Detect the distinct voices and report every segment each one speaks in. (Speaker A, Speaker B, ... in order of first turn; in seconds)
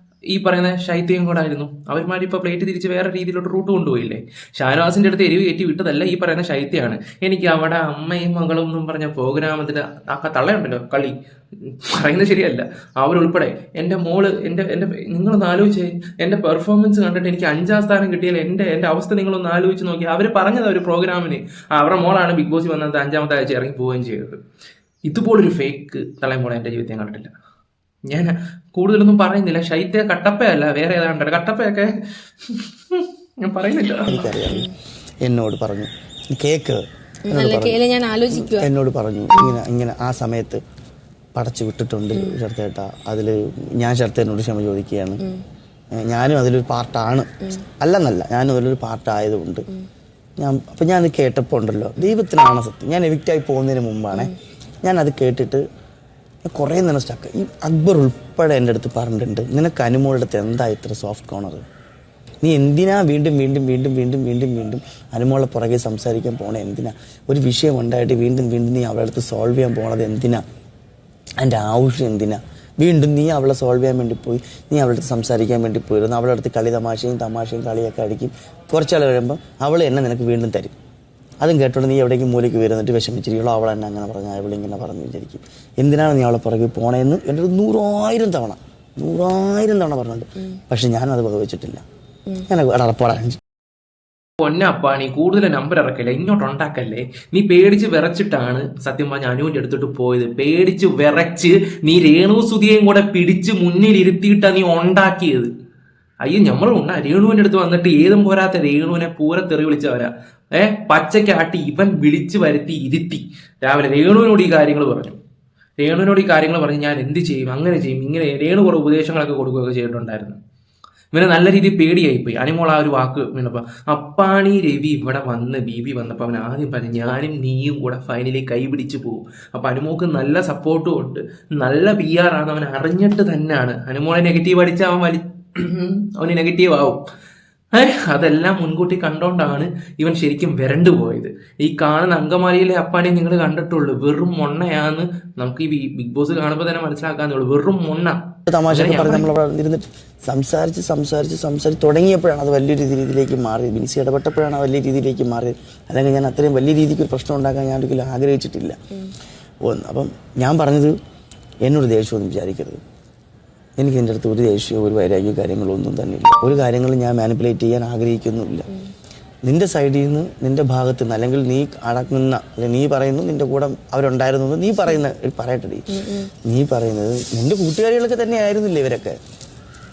Speaker A: 0.3-24.4, 25.1-27.3, 28.1-34.3, 94.4-105.5, 106.2-115.2, 115.8-120.4, 121.1-137.0, 137.7-149.3
Speaker B: 34.1-34.7, 37.3-38.7, 39.3-39.6, 42.1-42.4, 175.9-176.3
Speaker C: 34.2-34.6, 35.2-37.8, 38.5-40.6, 41.4-45.2, 45.9-49.7, 50.4-54.3, 54.8-55.6, 56.4-61.6, 62.4-70.4, 71.4-80.7, 81.4-91.8, 92.5-93.4, 148.5-158.8, 159.6-161.0, 161.6-162.8, 163.8-168.7, 169.4-175.9, 176.4-179.2